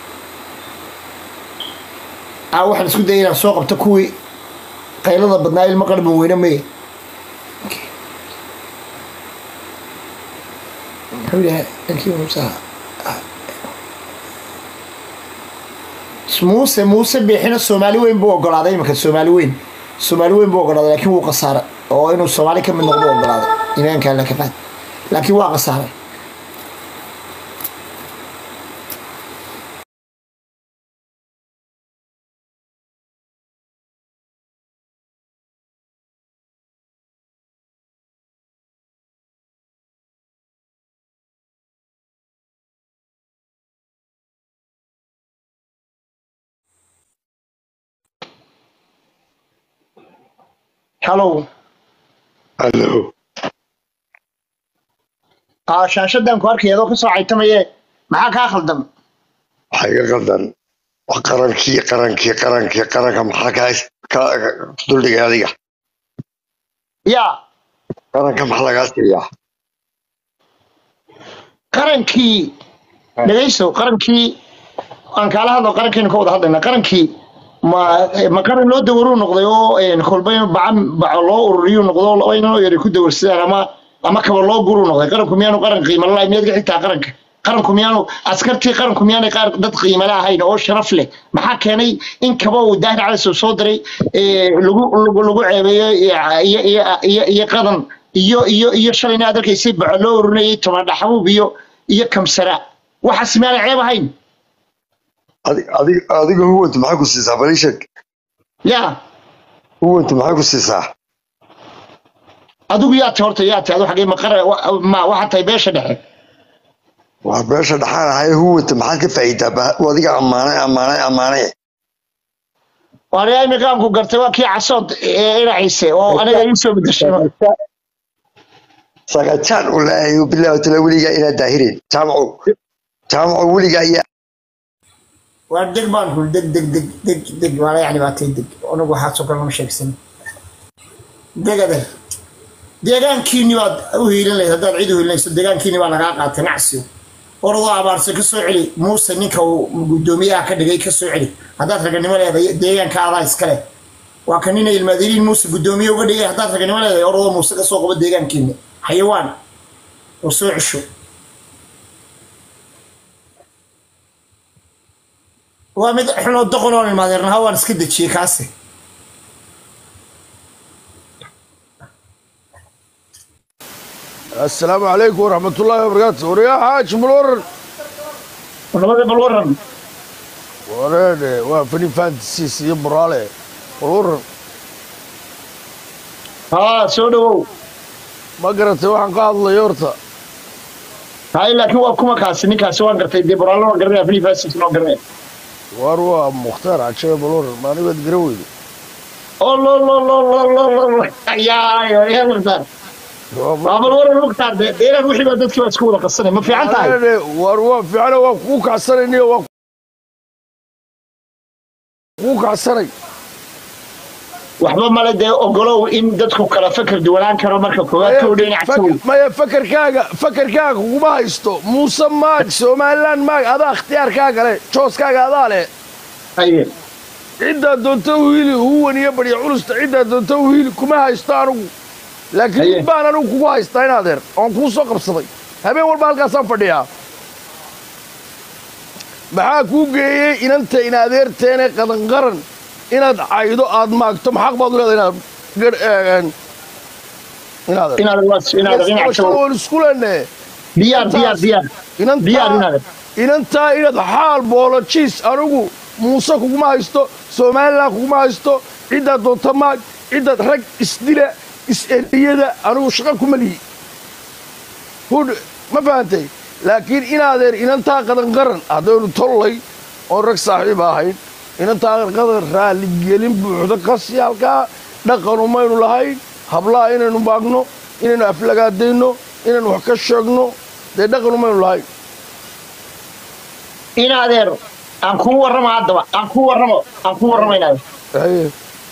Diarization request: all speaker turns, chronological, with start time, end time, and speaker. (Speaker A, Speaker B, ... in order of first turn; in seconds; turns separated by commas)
Speaker A: 2.5-4.1, Speaker A: 5.0-6.7, Speaker A: 11.2-13.2, Speaker A: 16.3-24.6, Speaker A: 25.1-25.9, Speaker A: 51.0-51.5, Speaker B: 52.6-53.1, Speaker A: 55.7-58.9, Speaker B: 59.8-60.5, Speaker B: 61.1-65.5, Speaker A: 67.1-67.3, Speaker B: 68.1-69.2, Speaker A: 71.7-72.5, Speaker A: 73.2-74.4, Speaker A: 75.1-77.1, Speaker A: 77.6-104.1, Speaker B: 105.5-107.8, Speaker A: 108.7-109.0, Speaker B: 109.8-110.8, Speaker A: 112.7-116.0, Speaker B: 117.2-121.5, Speaker A: 123.1-127.3, Speaker B: 126.1-126.4, Speaker B: 127.0-127.5, Speaker B: 129.1-132.4, Speaker B: 133.1-134.0, Speaker A: 135.5-140.0, Speaker A: 141.4-141.9, Speaker A: 142.8-146.9, Speaker A: 147.4-153.6, Speaker A: 154.3-159.3, Speaker A: 160.2-160.8, Speaker A: 165.8-168.5, Speaker C: 174.4-177.4, Speaker A: 178.7-179.6, Speaker C: 180.7-184.2, Speaker A: 186.5-187.5, Speaker C: 188.4-190.0, Speaker A: 191.3-195.0, Speaker C: 195.7-198.5, Speaker A: 199.4-202.7, Speaker C: 203.3-204.0, Speaker A: 203.7-207.0, Speaker C: 206.4-209.5, Speaker C: 212.2-212.9, Speaker A: 214.6-219.0, Speaker C: 218.0-225.7, Speaker A: 226.4-226.7, Speaker C: 227.4-231.7, Speaker C: 232.3-236.9, Speaker A: 232.6-232.9, Speaker C: 239.3-246.3, Speaker C: 247.7-248.0, Speaker A: 248.0-249.4, Speaker C: 248.6-250.3, Speaker A: 250.8-251.7, Speaker C: 250.9-252.7, Speaker A: 252.2-252.8, Speaker C: 253.2-263.6, Speaker C: 265.1-281.9, Speaker A: 284.0-287.8, Speaker C: 287.3-287.6, Speaker C: 288.1-288.5